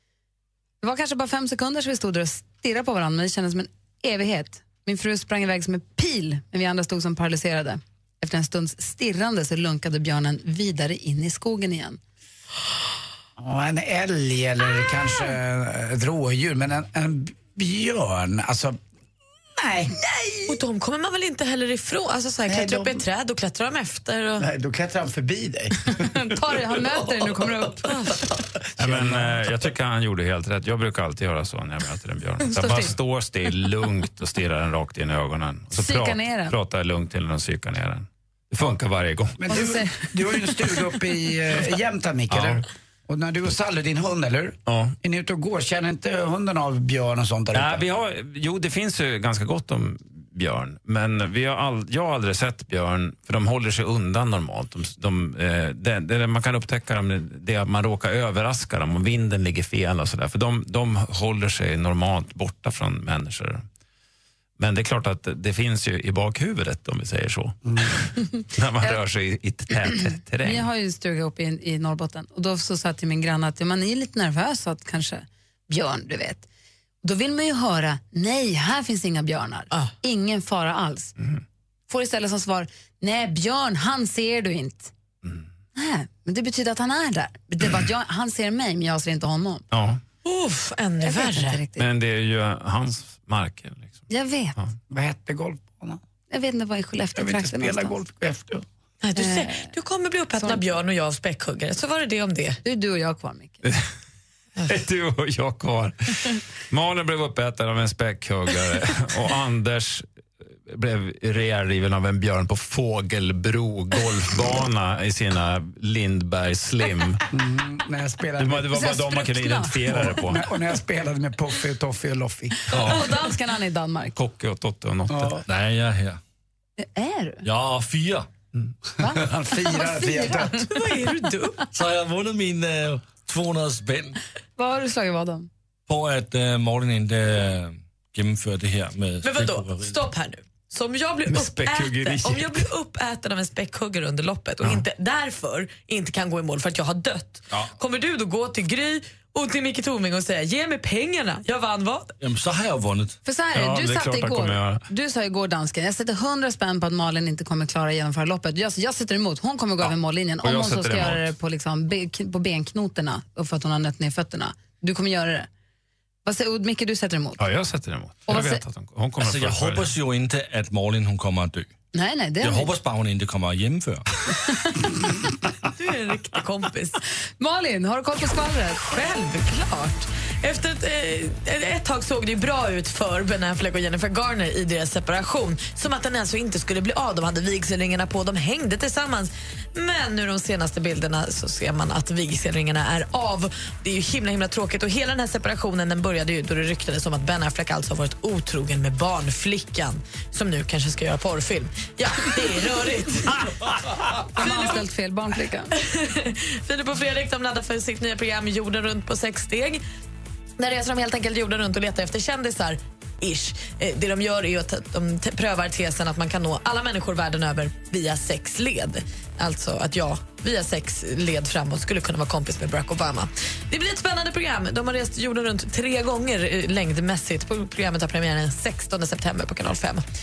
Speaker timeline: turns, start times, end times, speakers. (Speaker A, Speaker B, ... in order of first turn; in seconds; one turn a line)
Speaker A: 0.8-12.0
Speaker B: 13.4-18.8
Speaker B: 19.6-20.0
Speaker C: 20.4-24.5
Speaker B: 22.5-23.0
Speaker B: 24.4-26.1
Speaker A: 26.1-27.9
Speaker C: 27.9-28.2
Speaker D: 28.8-39.4
Speaker B: 28.8-29.5
Speaker A: 32.5-33.0
Speaker A: 35.7-36.5
Speaker B: 39.4-47.9
Speaker A: 39.5-40.7
Speaker D: 42.3-42.6
Speaker D: 44.7-45.0
Speaker D: 47.5-63.6
Speaker D: 64.6-70.7
Speaker A: 70.4-76.5
Speaker A: 77.0-81.1
Speaker A: 81.9-84.9
Speaker A: 85.8-89.6
Speaker D: 89.7-90.0
Speaker C: 90.2-91.6
Speaker A: 91.0-91.9
Speaker D: 91.8-94.0
Speaker A: 94.1-94.6
Speaker B: 94.9-96.0
Speaker A: 96.3-98.0
Speaker B: 97.2-98.7
Speaker C: 99.0-102.6
Speaker A: 99.2-99.7
Speaker A: 102.6-103.6
Speaker D: 104.7-110.1
Speaker D: 110.7-117.2
Speaker B: 117.3-118.8
Speaker D: 118.4-120.4
Speaker A: 118.7-119.9
Speaker B: 119.9-122.6
Speaker D: 122.7-123.1
Speaker A: 122.8-124.2
Speaker D: 124.2-125.4
Speaker B: 125.1-125.4
Speaker E: 125.5-126.2
Speaker A: 126.8-127.4
Speaker E: 127.4-128.3
Speaker A: 129.0-130.6
Speaker B: 129.0-130.7
Speaker C: 130.5-131.6
Speaker E: 131.7-134.2
Speaker A: 134.6-135.5
Speaker E: 135.9-140.0
Speaker C: 139.2-152.1
Speaker D: 141.3-142.7
Speaker E: 152.2-153.2
Speaker A: 153.2-165.5
Speaker D: 153.5-154.8
Speaker D: 160.4-161.3
Speaker A: 166.2-167.4
Speaker D: 167.4-169.9
Speaker A: 168.3-168.6
Speaker E: 169.2-171.7
Speaker A: 171.9-172.7
Speaker E: 172.4-174.1
Speaker C: 175.8-177.0
Speaker A: 177.4-178.9
Speaker C: 178.8-203.5
Speaker A: 204.3-205.7
Speaker C: 204.4-204.8
Speaker C: 205.8-209.8
Speaker C: 210.6-230.0